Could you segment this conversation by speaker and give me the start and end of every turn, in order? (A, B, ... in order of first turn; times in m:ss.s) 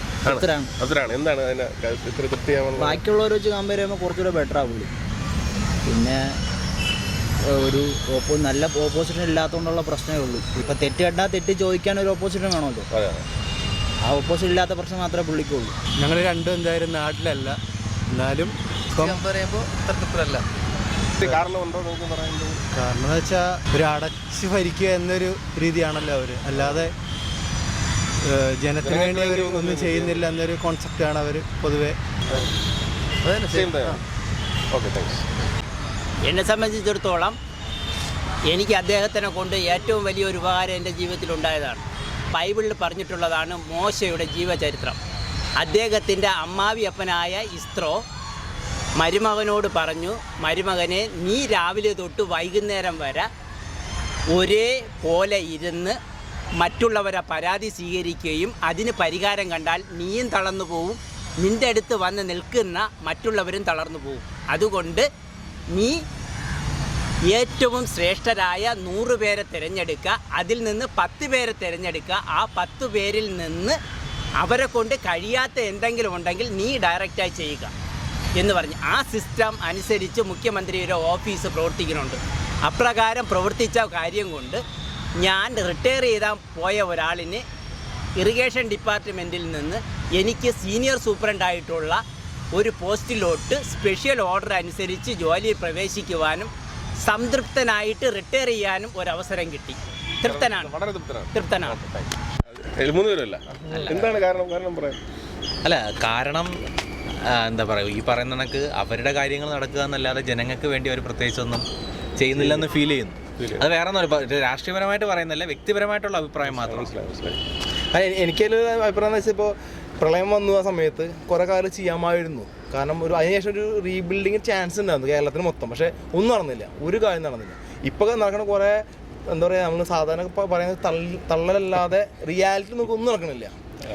0:00.2-0:03.0 A
0:00.2-0:00.7 B
0:02.8-0:04.9 B
0:05.8-0:06.4 B
0:07.4-0:12.8 B
0:12.9-0:13.2 A
0:14.0-0:15.8 B
0:16.0-0:17.6 C
0:18.1-0:20.4 C
0:21.2-0:22.6 A
0:22.7-0:26.9 C
0:26.5-0:26.9 A
0:28.2-0:32.5 C
0:28.8-0:30.2 A
0:33.2-0:34.0 C
0:33.5-0:34.0 A
0:34.7-0:35.2 A
0:36.2-0:37.4 D
0:38.5-0:45.0 D
0:45.6-0:48.0 D
0:49.0-0:53.3 D
0:54.3-0:56.0 D
0:56.6-1:05.0 D
1:07.2-1:13.8 D
1:14.4-1:17.7 D
1:18.4-1:24.6 D
1:25.2-1:27.4 D
1:28.2-1:32.0 D
1:32.5-1:36.5 D
1:37.0-1:40.7 D
1:40.2-1:45.0 A
1:41.3-1:41.8 D
1:43.7-1:44.2 E
1:45.6-1:46.6 E
1:47.2-1:51.6 E
1:52.2-1:56.9 E
1:53.4-1:53.7 A
1:56.4-1:57.4 A
1:57.9-2:13.6 F